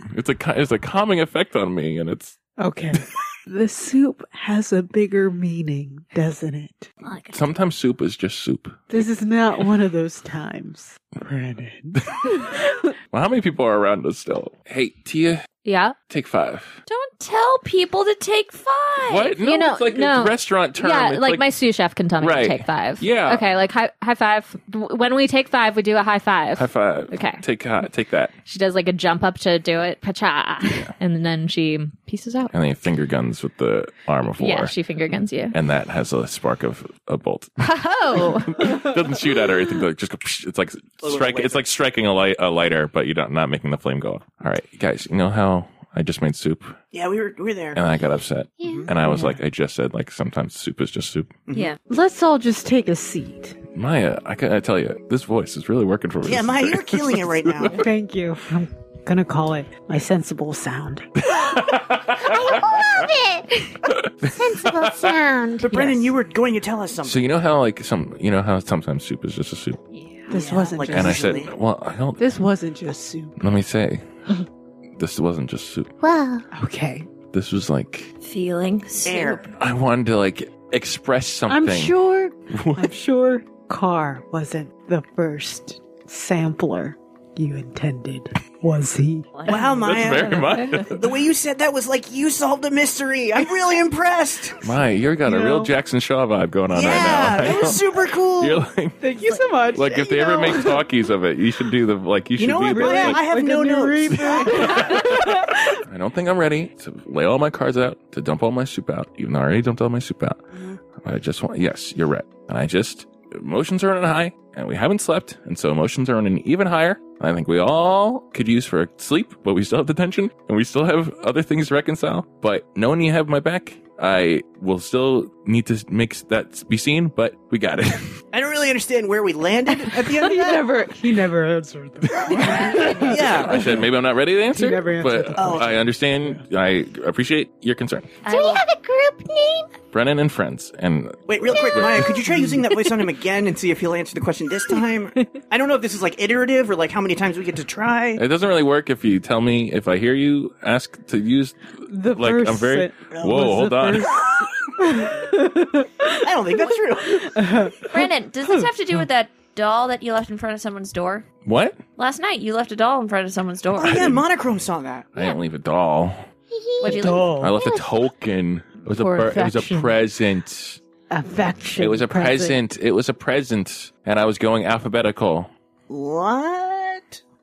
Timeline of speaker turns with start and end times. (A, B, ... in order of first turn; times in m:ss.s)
0:00.1-0:02.4 A
0:02.6-0:06.9 B
0:07.0-0:07.4 C
0:07.3-0:08.9 A
0:08.9-0:12.9 B
0:12.2-0:12.5 A
0:13.1-0:15.4 A
0:15.6-0:16.0 D
0:16.1-0:16.8 A
0:16.9-0:19.4 C
0:19.0-0:21.4 A
0:19.4-0:27.4 D
0:22.2-0:23.5 A
0:26.6-0:28.3 A
0:28.4-0:32.5 D
0:32.5-0:34.7 A
0:34.3-0:35.6 D
0:35.5-0:37.5 A
0:37.6-0:38.8 D
0:38.1-0:46.8 A
0:41.0-0:41.6 E
0:46.9-0:47.8 E
0:47.7-0:51.3 A
0:48.7-0:49.0 E
0:49.0-0:49.4 B
0:51.5-0:51.7 E
0:51.5-0:51.8 C
0:51.8-0:53.6 B
0:53.7-0:57.8 A
0:56.2-0:57.8 E
0:57.7-1:01.1 B
1:01.2-1:02.9 A
1:02.2-1:03.8 D
1:03.9-1:05.0 A
1:04.3-1:06.1 D
1:05.6-1:07.2 E
1:07.0-1:09.8 A
1:09.9-1:10.7 C
1:10.3-1:11.3 B
1:10.3-1:11.5 E
1:10.9-1:12.4 A
1:12.2-1:13.4 B
1:13.4-1:14.4 A
1:15.0-1:15.9 A
1:16.0-1:16.4 D
1:16.5-1:17.1 B
1:17.3-1:18.1 A
1:18.2-1:19.5 C
1:19.0-1:19.5 E
1:19.6-1:22.0 A
1:21.5-1:29.3 B
1:22.5-1:22.9 A
1:29.3-1:30.8 C
1:29.4-1:34.8 E
1:29.7-1:31.0 A
1:34.6-1:37.8 A
1:35.2-1:35.7 B
1:36.7-1:38.6 E
1:38.4-1:39.0 A
1:39.0-1:40.9 B
1:39.7-1:43.2 A
1:42.4-1:44.9 E
1:42.7-1:45.7 B
1:44.2-1:50.4 A
1:50.5-1:50.8 E
1:51.0-2:08.2 A
2:08.3-2:10.7 E
2:09.7-2:13.9 B
2:12.1-2:18.2 A
2:13.0-2:13.8 E
2:14.5-2:16.4 B
2:15.4-2:15.8 E
2:18.2-2:18.6 C
2:18.3-2:19.7 D
2:19.9-2:22.2 A
2:21.3-2:28.2 E
2:28.2-2:34.3 A
2:31.9-2:36.2 B
2:33.1-2:33.5 E
2:36.2-2:37.6 E
2:37.1-2:38.7 B
2:37.8-2:41.2 C
2:41.4-2:41.8 A
2:42.0-2:44.2 C
2:43.8-2:45.1 E
2:43.8-2:44.2 A
2:45.1-2:46.3 A
2:46.5-2:47.9 D
2:46.8-2:47.4 C
2:46.9-2:47.6 B
2:47.1-2:50.8 A
2:48.9-2:50.0 D
2:51.1-2:52.6 B
2:51.7-2:55.5 A
2:55.9-2:57.2 E